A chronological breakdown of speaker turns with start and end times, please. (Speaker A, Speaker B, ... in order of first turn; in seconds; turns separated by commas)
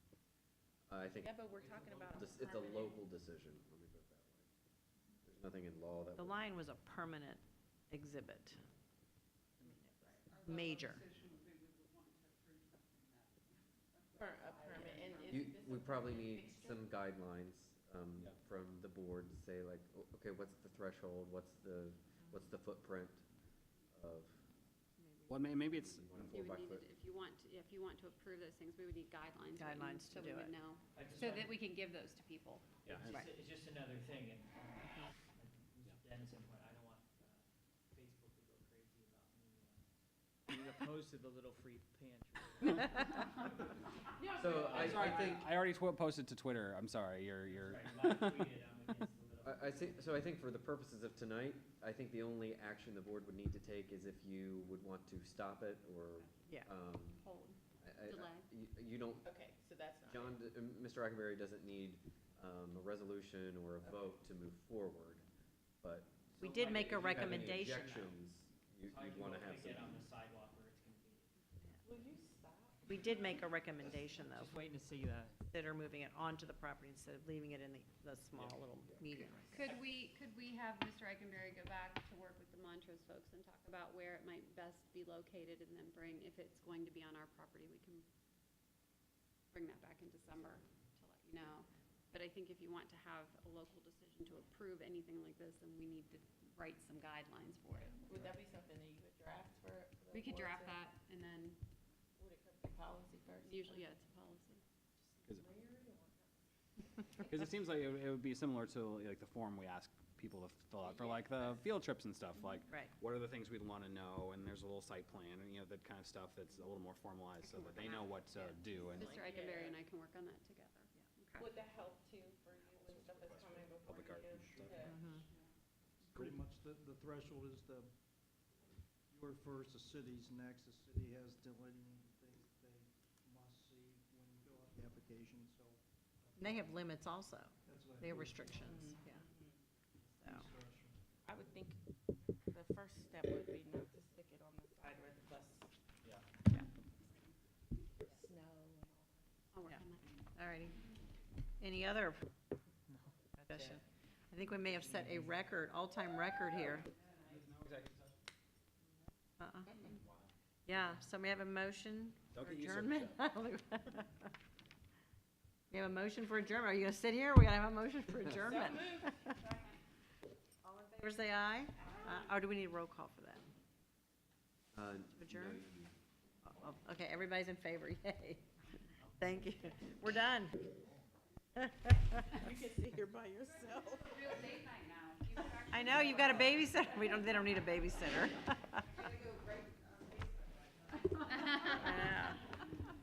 Speaker A: 0.9-1.5, Speaker B: 1.2-3.0, Speaker A: 2.0-4.5, Speaker A: 5.2-6.5, Speaker C: 6.2-8.6, Speaker B: 9.6-10.2, Speaker D: 10.2-15.4, Speaker C: 10.4-11.0, Speaker B: 14.2-16.8, Speaker A: 15.3-23.2, Speaker A: 23.9-24.4, Speaker E: 25.3-26.2, Speaker A: 25.7-26.9, Speaker D: 26.2-32.7, Speaker C: 29.6-30.5, Speaker F: 30.9-31.6, Speaker E: 32.9-33.2, Speaker F: 32.9-39.9, Speaker F: 40.5-43.5, Speaker B: 44.2-45.5, Speaker A: 44.4-45.5, Speaker E: 44.6-48.3, Speaker F: 47.5-50.1, Speaker A: 49.4-57.2, Speaker D: 57.0-58.5, Speaker A: 57.8-59.3, Speaker B: 59.2-60.4, Speaker A: 60.1-65.2, Speaker A: 65.8-70.0, Speaker C: 66.4-68.0, Speaker F: 66.4-68.1, Speaker F: 68.8-71.3, Speaker B: 71.8-73.2, Speaker C: 72.9-74.5, Speaker F: 74.3-75.4, Speaker C: 75.5-79.7, Speaker D: 79.5-88.1, Speaker D: 89.5-98.1, Speaker B: 98.0-100.8, Speaker D: 100.1-101.6, Speaker B: 102.2-104.0, Speaker D: 103.5-104.6, Speaker B: 105.3-106.4, Speaker B: 107.0-107.3, Speaker E: 107.3-119.1, Speaker D: 117.4-121.5, Speaker B: 118.9-119.8, Speaker B: 121.3-125.0, Speaker E: 122.9-124.8, Speaker G: 124.4-125.2, Speaker C: 124.9-125.2, Speaker G: 126.1-127.9, Speaker G: 129.1-136.8, Speaker C: 136.4-139.2, Speaker G: 137.6-138.9, Speaker B: 138.7-139.6, Speaker G: 140.2-141.0, Speaker C: 140.2-140.5, Speaker B: 141.3-141.8, Speaker B: 142.5-145.7, Speaker B: 148.0-149.3, Speaker D: 149.5-150.2, Speaker C: 150.3-150.8, Speaker C: 151.6-152.3, Speaker F: 152.9-153.4, Speaker C: 153.5-156.9, Speaker E: 157.3-158.1, Speaker C: 159.4-159.8, Speaker E: 159.9-160.2, Speaker C: 160.7-164.3, Speaker E: 162.4-163.1, Speaker C: 165.7-169.3, Speaker B: 168.4-169.6, Speaker C: 171.0-173.5, Speaker B: 171.7-172.4, Speaker A: 174.7-175.9, Speaker C: 175.1-175.6, Speaker C: 176.5-180.7, Speaker C: 181.6-182.2, Speaker B: 182.3-184.4, Speaker D: 183.5-187.7, Speaker B: 185.3-185.7, Speaker C: 185.7-188.9, Speaker D: 189.0-192.1, Speaker B: 191.6-192.4, Speaker C: 191.8-192.4